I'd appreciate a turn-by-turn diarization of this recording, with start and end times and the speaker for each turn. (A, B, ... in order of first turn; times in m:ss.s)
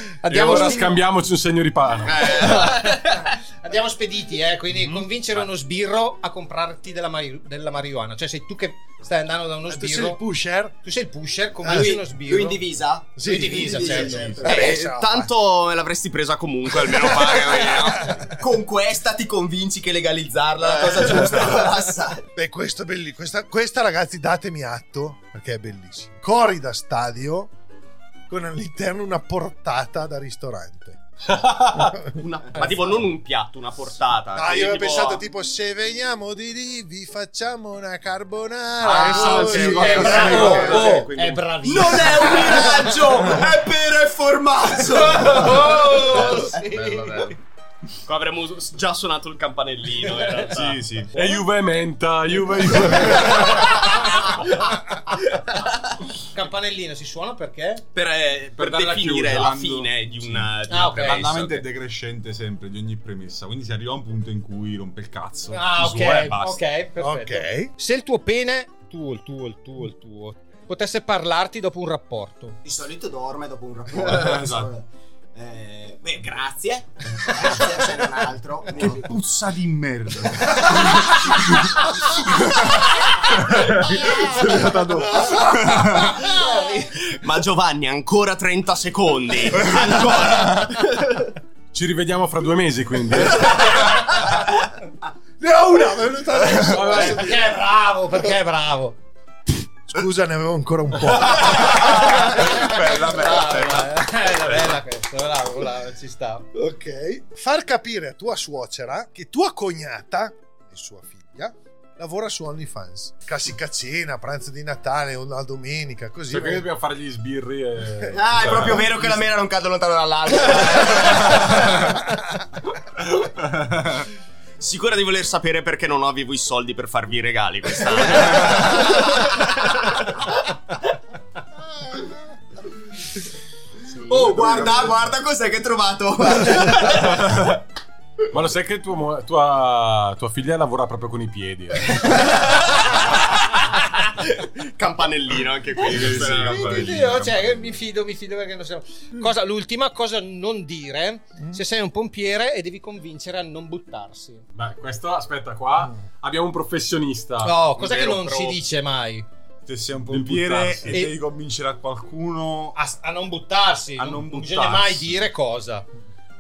0:00.2-0:01.0 A
0:00.3-0:02.6 B
0:02.1-0:02.7 C
0:02.2-0:10.2 A
0:09.7-0:10.8 D
0:10.8-0:12.6 A
0:11.6-0:11.9 D
0:11.6-0:14.7 E
0:13.2-0:15.3 D
0:13.2-0:14.4 A
0:13.7-0:14.6 F
0:14.4-0:18.2 C
0:16.9-0:18.2 D
0:18.3-0:22.2 E
0:22.4-0:27.5 D
0:28.3-0:31.0 D
0:31.3-0:32.0 B
0:32.2-0:35.2 C
0:34.4-0:40.9 D
0:38.9-0:41.1 F
0:38.9-0:43.3 A
0:40.8-0:41.4 C
0:41.6-0:45.7 E
0:44.9-0:47.4 A
0:46.7-0:47.0 C
0:48.1-0:50.8 C
0:50.3-0:51.2 F
0:51.1-0:53.9 B
0:53.8-0:54.3 A
0:56.3-0:57.8 A
0:57.9-1:01.7 C
0:58.6-0:59.5 B
0:58.6-1:06.6 F
1:00.7-1:01.3 A
1:05.5-1:12.6 A
1:06.0-1:06.4 B
1:07.0-1:07.7 D
1:12.6-1:14.8 E
1:14.0-1:14.7 F
1:15.4-1:19.1 E
1:18.7-1:21.7 F
1:22.3-1:22.7 F
1:23.4-1:26.2 F
1:24.0-1:24.7 A
1:25.2-1:26.9 A
1:27.0-1:30.6 C
1:29.7-1:30.7 F
1:31.7-1:33.8 B
1:33.6-1:34.2 A
1:35.4-1:37.4 D
1:36.5-1:37.3 B
1:36.8-1:39.0 A
1:39.9-1:42.2 D
1:41.6-1:46.5 A
1:41.7-1:44.8 F
1:46.5-1:56.7 D
1:56.3-1:59.2 B
1:58.1-2:01.7 E
2:04.6-2:09.2 C
2:14.1-2:17.5 E
2:14.3-2:14.9 F
2:18.3-2:22.4 B
2:24.6-2:26.7 C
2:25.8-2:27.8 F
2:26.3-2:34.4 A
2:34.6-2:37.6 B
2:37.4-2:39.3 A
2:37.8-2:38.6 C
2:39.7-2:42.8 F
2:40.1-2:41.0 B
2:40.9-2:41.2 A
2:42.7-2:45.9 A
2:44.0-2:45.2 F